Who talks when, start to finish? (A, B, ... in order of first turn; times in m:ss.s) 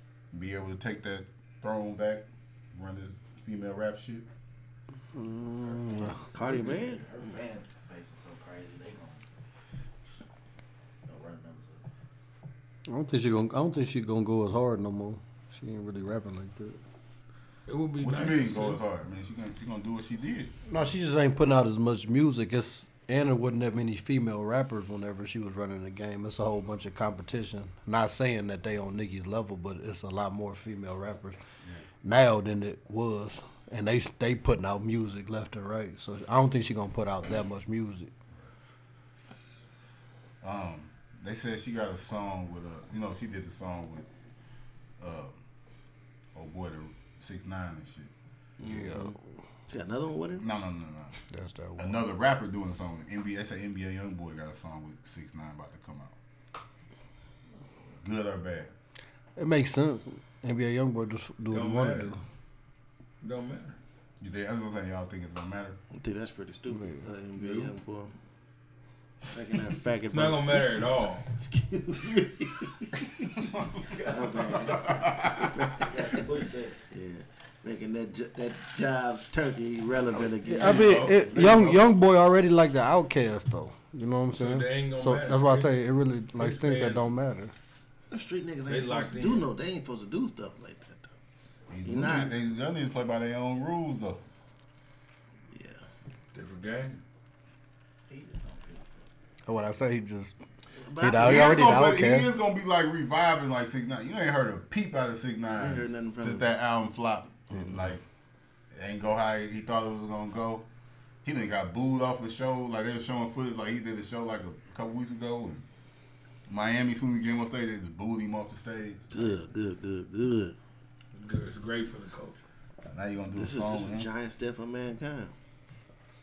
0:00.3-0:04.3 A
0:05.1-0:06.2 B
0:05.7-0:09.2 C
0:06.3-0:07.4 D
0:11.1-0:11.8 C
0:12.9-0:16.8 B
0:17.7-0:18.8 E
0:18.0-0:20.5 A
0:20.7-0:31.4 B
0:32.0-0:38.1 B
0:40.4-0:44.1 A
0:45.0-0:45.4 A
0:46.4-0:48.1 A
0:48.6-0:49.2 D
0:48.6-0:49.2 B
0:49.7-0:50.4 D
0:50.4-0:51.2 A
0:51.3-0:52.0 B
0:51.8-0:56.1 A
0:58.0-0:58.7 A
0:59.4-1:02.2 B
1:01.5-1:02.2 E
1:03.2-1:03.8 E
1:04.2-1:05.8 A
1:05.9-1:08.1 D
1:06.7-1:07.0 B
1:07.4-1:07.7 E
1:09.3-1:10.8 D
1:10.1-1:11.3 E
1:11.4-1:13.3 D
1:13.4-1:13.9 A
1:13.8-1:15.2 C
1:14.1-1:16.2 D
1:14.7-1:15.4 A
1:15.8-1:16.8 C
1:16.9-1:21.7 D
1:20.4-1:27.5 B
1:20.6-1:21.8 A
1:24.3-1:25.7 E
1:26.4-1:27.1 E
1:28.1-1:31.1 D
1:28.7-1:29.5 E
1:31.7-1:34.2 A
1:31.8-1:32.3 D
1:35.5-1:35.8 D
1:36.3-1:37.0 E
1:38.1-1:39.0 C
1:39.4-1:40.4 B
1:40.8-1:41.8 D
1:41.0-1:42.3 B
1:41.1-1:48.0 A
1:45.6-1:46.4 D
1:47.5-1:48.0 B
1:48.7-1:50.6 A
1:51.2-1:55.6 A
1:56.5-1:59.3 A
1:59.1-2:00.6 D
2:01.1-2:02.4 E
2:02.8-2:04.1 A
2:03.4-2:05.3 D